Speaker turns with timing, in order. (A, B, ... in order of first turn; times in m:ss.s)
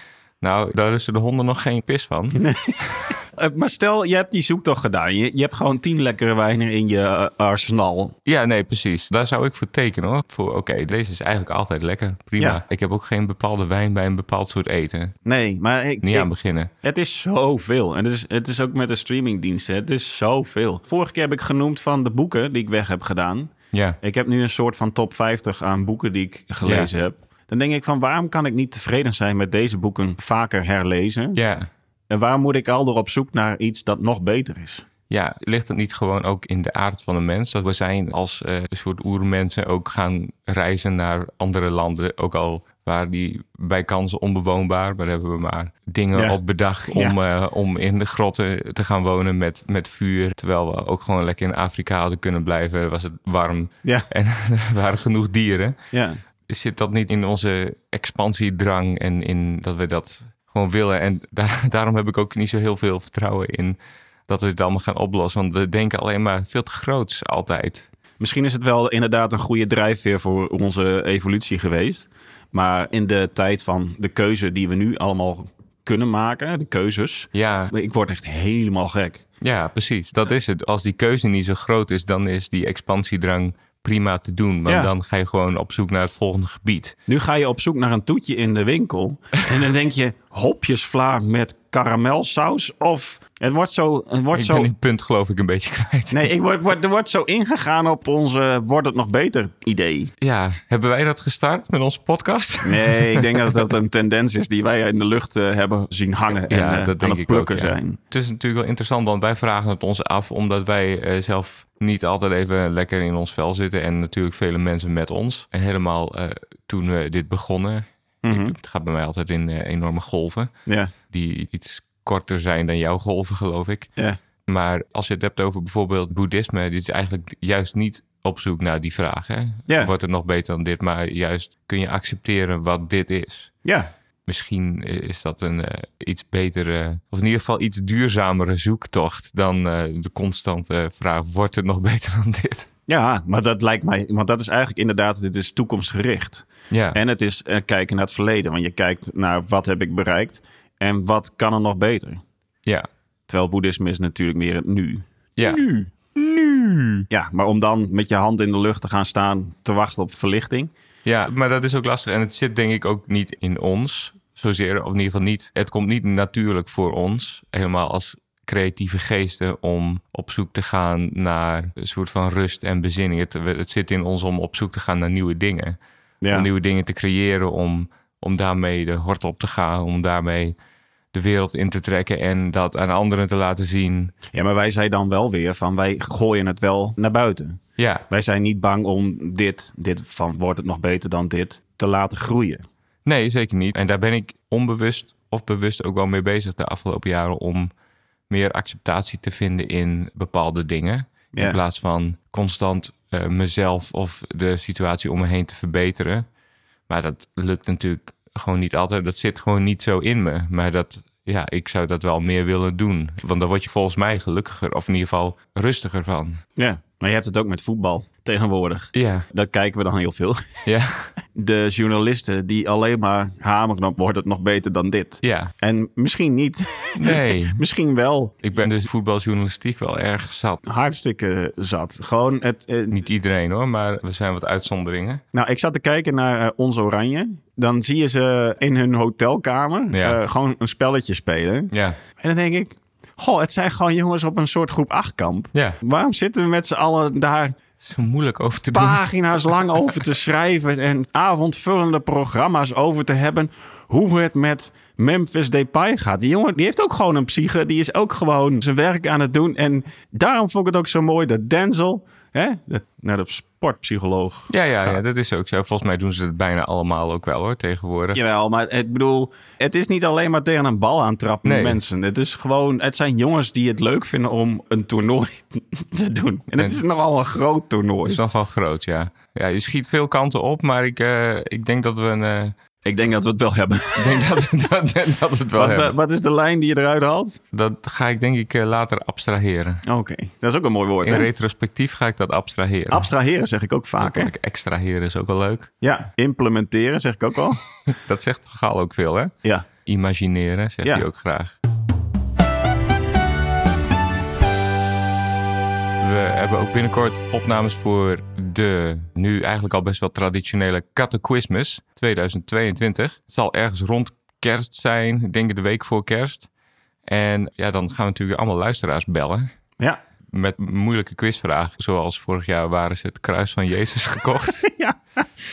0:00.4-0:02.5 A
0:02.4-0:08.2 B
0:08.3-0:15.1 A
0:15.2-0:16.3 B
0:16.0-0:16.7 A
0:16.8-0:31.4 B
0:23.7-0:24.0 A
0:26.6-0:26.9 A
0:31.4-0:31.7 A
0:32.1-0:34.9 B
0:35.1-0:55.8 A
0:46.1-0:47.2 B
0:55.9-0:56.2 B
0:56.5-1:03.8 A
1:04.3-1:07.9 A
1:08.2-1:19.2 B
1:17.3-1:17.7 A
1:19.4-1:27.0 A
1:24.7-1:24.9 B
1:27.1-1:34.7 B
1:34.3-1:36.3 A
1:36.1-1:40.1 B
1:40.2-1:43.6 A
1:42.6-1:48.0 B
1:46.5-2:00.5 A
1:58.2-1:58.5 B
2:00.7-2:00.9 B
2:01.1-2:03.9 A
2:04.5-2:13.5 A
2:09.7-2:09.9 B
2:13.6-2:13.9 B
2:14.3-2:22.7 A
2:22.9-2:32.2 B
2:26.7-2:27.0 A
2:33.3-2:35.9 B
2:35.4-2:35.6 A
2:36.2-2:37.1 A
2:37.1-2:40.7 B
2:41.0-2:55.8 A
2:56.2-2:56.5 B
2:56.3-3:00.6 A
3:01.1-3:04.1 A
3:04.3-3:07.6 B
3:07.8-3:08.0 A
3:08.1-3:12.6 B
3:13.0-3:17.7 A
3:18.3-3:26.3 A
3:21.3-3:21.6 B
3:26.9-3:36.4 A
3:36.6-3:40.5 B
3:38.9-3:39.3 A
3:40.7-3:41.1 A
3:41.3-3:48.4 B
3:45.2-3:45.5 A
3:47.0-3:47.6 A
3:48.4-3:50.6 A
3:50.7-3:53.0 B
3:52.9-3:55.2 A
3:55.3-4:07.6 B
3:59.9-4:00.2 A
4:01.7-4:02.0 A
4:07.8-4:09.8 A
4:08.7-4:25.0 B
4:24.5-4:28.2 A
4:28.1-4:38.2 B
4:31.4-4:31.8 A
4:36.6-4:36.8 A
4:38.0-4:42.5 A
4:42.8-4:44.2 B
4:44.0-4:46.0 A
4:45.6-4:47.4 B
4:47.5-4:49.8 A
4:49.9-4:51.3 B
4:51.0-4:53.1 A
4:52.9-4:54.3 B
4:54.0-4:55.7 A
4:55.8-4:57.6 B
4:57.9-4:59.3 A
4:59.9-5:01.6 A
5:06.0-5:16.5 A
5:17.1-5:19.5 A
5:20.3-5:24.6 A
5:24.6-5:25.0 B